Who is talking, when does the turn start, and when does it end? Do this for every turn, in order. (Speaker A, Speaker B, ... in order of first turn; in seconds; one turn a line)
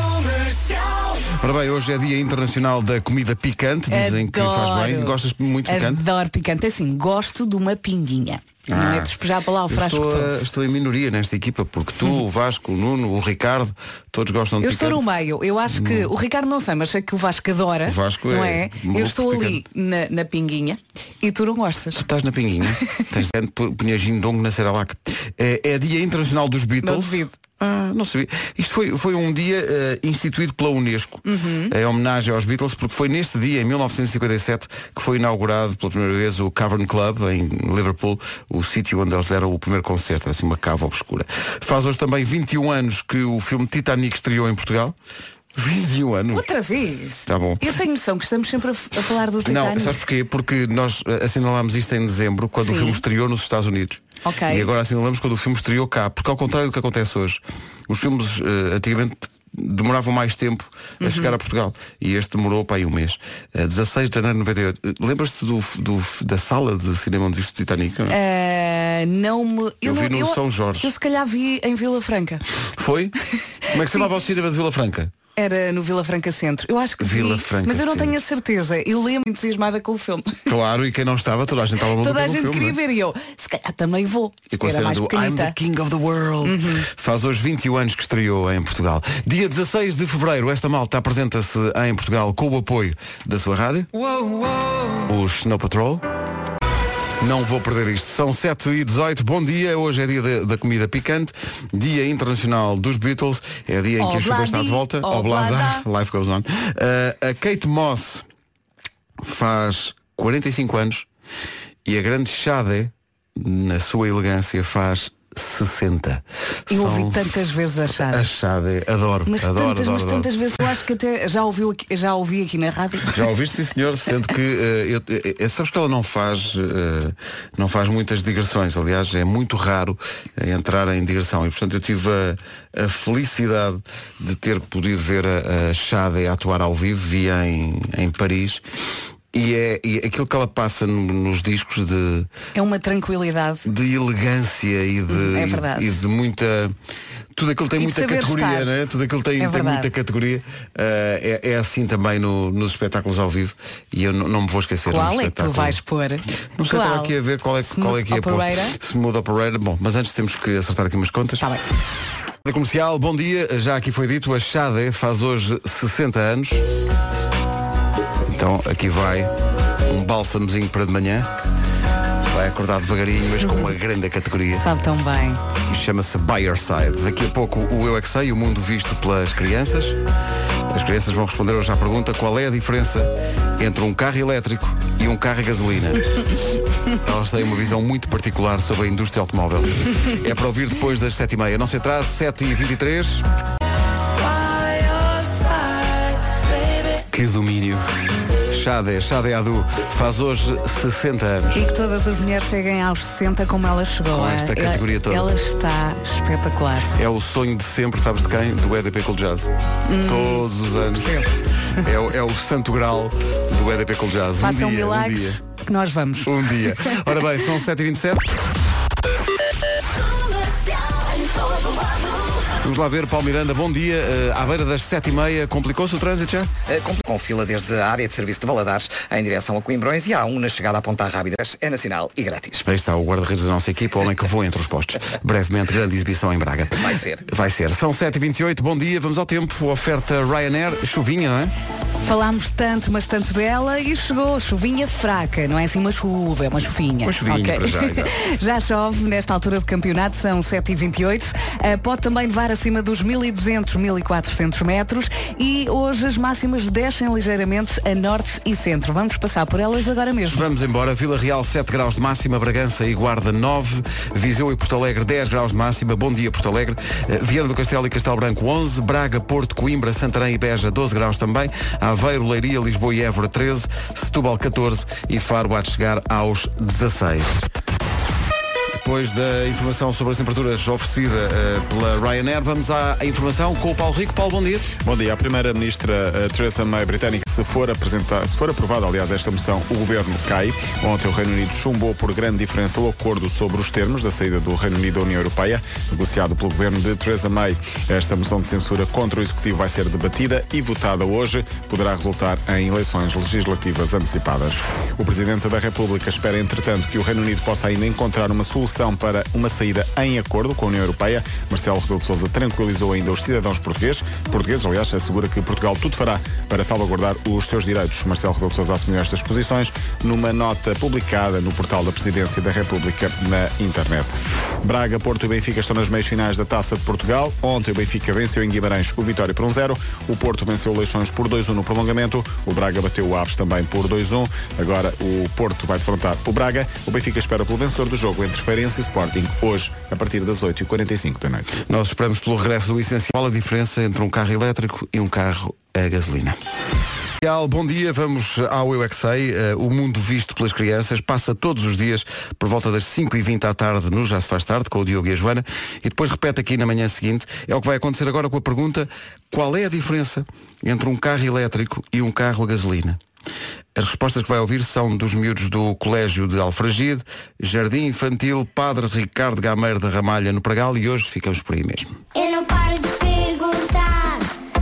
Speaker A: 1.4-6.0
Speaker B: 3.9-10.5
Speaker A: 8.7-15.0
Speaker B: 14.6-22.1
Speaker A: 15.7-16.1
Speaker A: 17.9-19.6
Speaker A: 22.0-45.0
Speaker B: 26.8-27.3
Speaker B: 31.3-31.7
Speaker A: 45.5-46.5
Speaker B: 46.3-50.0
Speaker A: 47.3-47.8
Speaker A: 49.4-68.2
Speaker B: 52.6-53.0
Speaker B: 54.2-54.7
Speaker B: 61.0-61.4
Speaker B: 68.1-72.4
Speaker A: 69.8-70.9
Speaker A: 72.8-73.2
Speaker A: 73.7-75.1
Speaker B: 75.4-80.5
Speaker A: 77.0-78.2
Speaker A: 80.5-82.8
Speaker B: 82.0-85.6
Speaker A: 84.5-93.9
Speaker B: 86.4-86.9
Speaker A: 95.0-96.0
Speaker A: 97.2-108.3
Speaker B: 104.0-105.9
Speaker A: 109.2-111.1
Speaker A: 111.8-120.7
Speaker B: 116.7-118.3
Speaker B: 119.3-123.2
Speaker A: 123.1-138.6
Speaker A: 139.3-142.3
Speaker B: 142.5-143.7
Speaker A: 143.7-146.8
Speaker B: 145.1-146.0
Speaker A: 147.3-155.8
Speaker B: 147.8-148.7
Speaker B: 149.4-149.9
Speaker B: 154.9-157.1
Speaker A: 156.6-161.5
Speaker B: 157.7-158.8
Speaker A: 162.4-166.6
Speaker A: 168.2-169.3
Speaker A: 169.9-171.3
Speaker A: 172.3-174.7
Speaker B: 174.6-175.4
Speaker A: 175.7-180.0
Speaker A: 180.7-186.3
Speaker A: 187.0-193.2
Speaker A: 197.1-197.8
Speaker A: 198.5-201.5
Speaker B: 201.5-207.0
Speaker A: 204.1-205.3
Speaker A: 207.0-211.2
Speaker B: 209.9-211.3
Speaker A: 211.8-215.4
Speaker B: 214.4-216.3
Speaker A: 216.2-218.3
Speaker A: 222.6-226.5
Speaker C: 226.7-232.6
Speaker A: 232.6-241.5
Speaker C: 236.8-237.2
Speaker B: 242.0-260.4
Speaker A: 247.0-248.1
Speaker A: 260.3-277.5
Speaker A: 278.7-284.7
Speaker D: 284.8-341.6
Speaker A: 341.6-346.4
Speaker A: 347.2-363.0
Speaker A: 363.8-372.0
Speaker E: 372.1-374.3